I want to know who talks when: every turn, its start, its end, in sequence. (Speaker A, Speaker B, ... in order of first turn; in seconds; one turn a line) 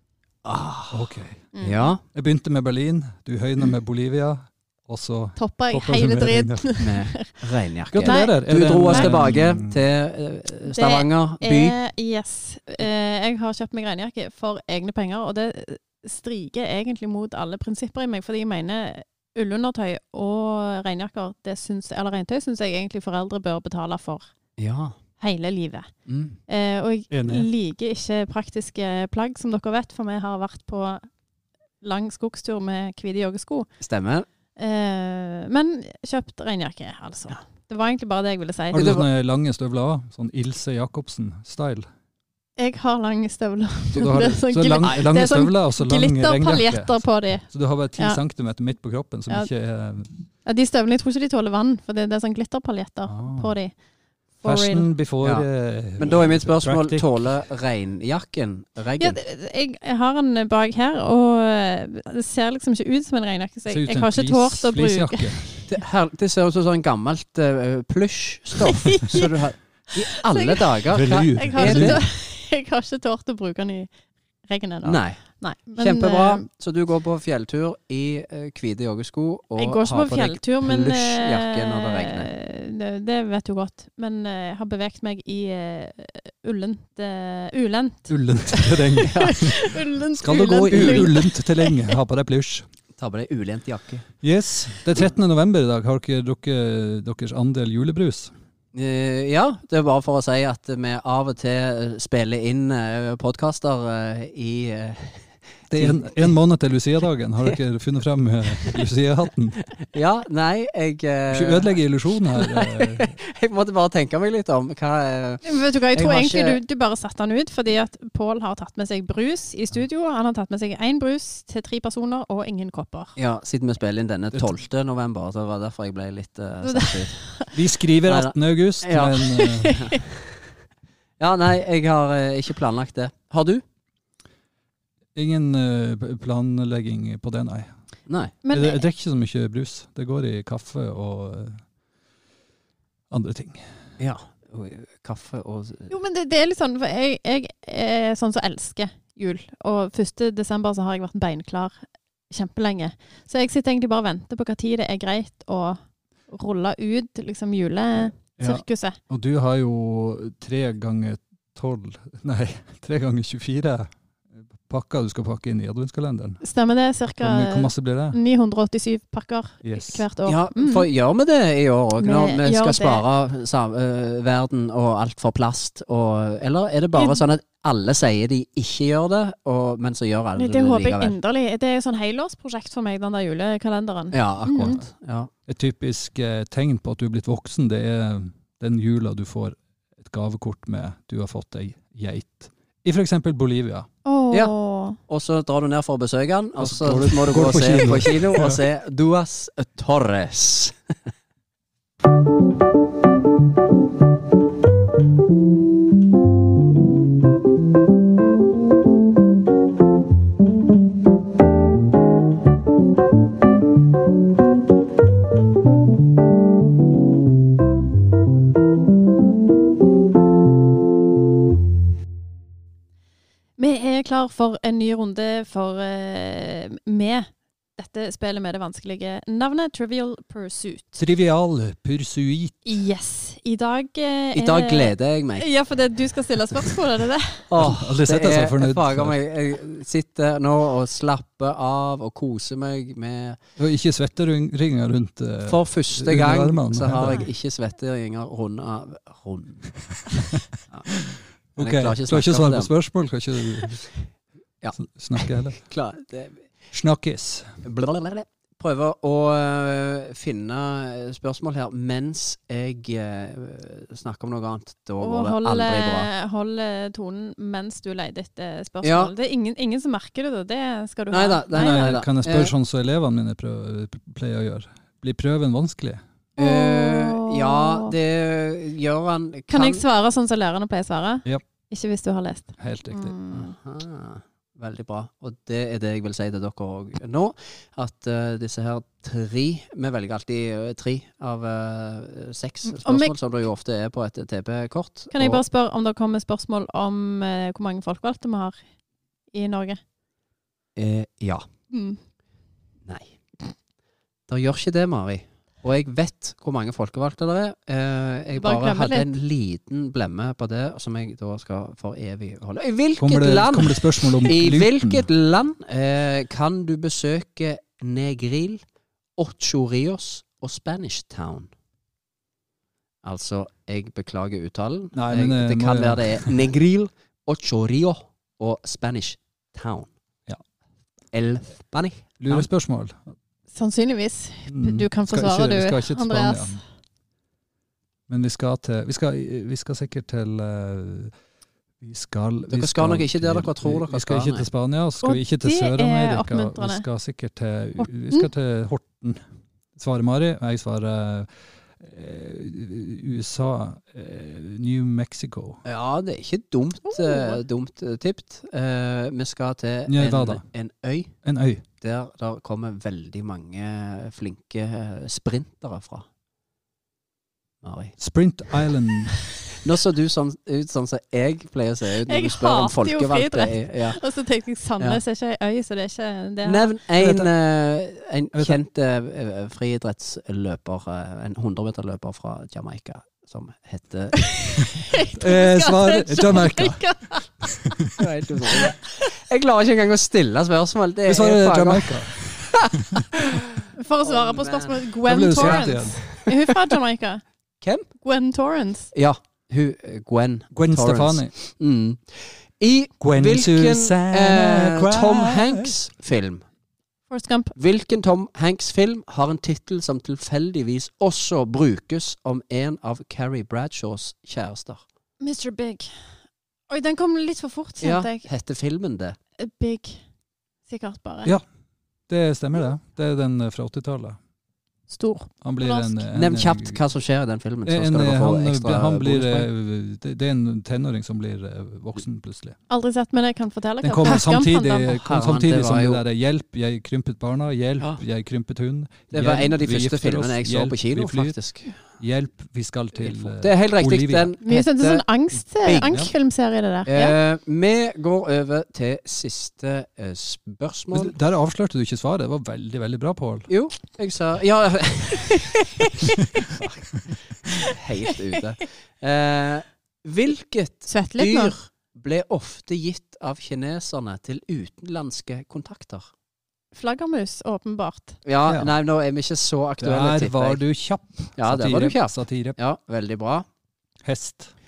Speaker A: 0.4-2.0
Speaker B: 0.9-1.5
Speaker C: 1.5-1.9
Speaker B: 2.1-6.7
Speaker C: 5.3-7.3
Speaker A: 6.8-11.8
Speaker B: 7.9-9.8
Speaker C: 8.0-9.4
Speaker C: 10.7-24.3
Speaker A: 24.6-24.9
Speaker C: 25.2-25.9
Speaker A: 26.1-26.4
Speaker C: 26.5-31.1
Speaker B: 27.1-27.5
Speaker C: 31.8-33.7
Speaker A: 33.8-34.3
Speaker C: 34.6-39.0
Speaker B: 38.7-41.9
Speaker A: 38.8-39.1
Speaker C: 42.6-48.2
Speaker B: 43.9-50.1
Speaker C: 50.4-53.7
Speaker B: 53.0-53.5
Speaker C: 54.4-54.9
Speaker B: 54.4-57.1
Speaker A: 55.2-59.2
Speaker C: 59.0-65.3
Speaker B: 63.7-65.5
Speaker A: 65.7-72.0
Speaker C: 68.7-69.3
Speaker C: 69.9-70.6
Speaker B: 70.9-72.0
Speaker C: 71.3-73.9
Speaker C: 74.5-76.5
Speaker A: 74.8-82.3
Speaker C: 79.6-91.7
Speaker B: 88.1-89.6
Speaker A: 89.0-89.4
Speaker B: 90.2-92.7
Speaker A: 90.7-91.2
Speaker A: 93.0-94.0
Speaker B: 94.2-98.3
Speaker A: 98.7-106.3
Speaker B: 105.7-109.6
Speaker A: 108.6-108.8
Speaker A: 109.9-116.6
Speaker B: 111.3-113.1
Speaker C: 115.4-123.1
Speaker A: 123.2-127.2
Speaker C: 126.6-127.5
Speaker B: 127.5-129.8
Speaker A: 128.0-130.2
Speaker C: 129.4-129.9
Speaker A: 131.2-133.6
Speaker B: 135.1-137.7
Speaker A: 138.1-138.4
Speaker C: 138.4-138.8
Speaker B: 138.5-141.6
Speaker B: 143.1-143.6
Speaker A: 144.0-145.9
Speaker C: 145.9-159.0
Speaker B: 158.4-163.9
Speaker B: 164.5-166.4
Speaker C: 166.4-170.9
Speaker B: 167.2-168.2
Speaker B: 169.6-170.1
Speaker A: 170.2-181.2
Speaker C: 172.0-173.0
Speaker C: 176.9-177.2
Speaker C: 180.3-184.8
Speaker A: 184.1-185.3
Speaker B: 184.5-184.8
Speaker B: 185.5-193.9
Speaker C: 194.0-195.0
Speaker A: 195.1-200.7
Speaker B: 196.6-198.6
Speaker C: 223.6-231.0
Speaker B: 231.0-232.6
Speaker C: 232.6-237.5
Speaker A: 234.3-235.5
Speaker A: 237.5-243.4
Speaker B: 237.6-239.2
Speaker B: 243.6-247.3
Speaker A: 245.5-249.7
Speaker B: 250.9-253.9
Speaker A: 251.6-252.7
Speaker A: 254.6-256.4
Speaker B: 254.8-255.6
Speaker B: 256.7-257.5
Speaker A: 257.6-266.1
Speaker C: 265.0-271.9
Speaker A: 268.8-269.1
Speaker A: 271.1-272.5
Speaker B: 271.5-276.0
Speaker A: 276.4-279.8
Speaker C: 276.4-277.9
Speaker C: 279.5-283.5
Speaker B: 282.6-283.1
Speaker A: 283.3-295.4
Speaker C: 292.6-293.1
Speaker C: 295.1-298.6
Speaker C: 299.3-299.8
Speaker A: 300.8-301.4
Speaker C: 301.7-302.0
Speaker A: 302.9-303.1
Speaker A: 304.3-318.6
Speaker C: 308.4-309.1
Speaker B: 313.0-315.1
Speaker A: 319.2-321.5
Speaker A: 323.0-329.9
Speaker B: 324.9-326.5
Speaker A: 331.1-332.5
Speaker B: 332.2-333.0
Speaker C: 333.5-336.6
Speaker B: 334.5-336.6
Speaker B: 338.1-341.1
Speaker B: 341.8-349.2
Speaker A: 342.5-344.5
Speaker C: 345.0-346.9
Speaker B: 349.8-351.3
Speaker B: 351.8-355.6
Speaker A: 355.6-361.1
Speaker C: 356.9-357.4
Speaker B: 359.9-360.4
Speaker B: 361.2-361.6
Speaker A: 361.8-366.1
Speaker A: 367.6-367.9
Speaker B: 368.0-369.2
Speaker A: 369.6-374.0
Speaker C: 372.1-376.7
Speaker A: 376.4-384.3
Speaker B: 377.0-377.3
Speaker B: 378.3-378.6
Speaker C: 384.2-387.8
Speaker B: 385.1-386.8
Speaker A: 388.0-392.6
Speaker B: 391.1-393.1
Speaker C: 393.7-397.2
Speaker A: 394.0-396.6
Speaker B: 395.0-396.0
Speaker A: 397.6-397.9
Speaker C: 398.0-398.9
Speaker A: 398.9-406.4
Speaker B: 400.5-401.3
Speaker B: 403.0-405.8
Speaker C: 407.1-407.5
Speaker A: 407.5-414.8
Speaker C: 415.2-415.9
Speaker C: 416.7-418.3
Speaker A: 417.8-419.2
Speaker C: 419.4-420.0
Speaker C: 420.6-421.4
Speaker B: 422.1-424.2
Speaker C: 424.9-426.0
Speaker B: 425.4-426.8
Speaker A: 426.1-429.5
Speaker B: 427.6-432.6
Speaker C: 432.7-435.0
Speaker B: 433.8-444.3
Speaker A: 435.0-436.0
Speaker A: 437.8-438.0
Speaker A: 439.1-441.8
Speaker A: 443.0-445.1
Speaker C: 444.4-447.2
Speaker A: 445.6-446.1
Speaker A: 446.9-451.1
Speaker B: 450.9-453.5
Speaker A: 453.5-455.8
Speaker A: 457.6-466.1
Speaker C: 460.9-461.6
Speaker C: 466.7-468.2
Speaker A: 468.2-470.6
Speaker B: 468.5-468.7
Speaker B: 469.8-472.6
Speaker A: 471.4-473.4
Speaker B: 474.0-474.5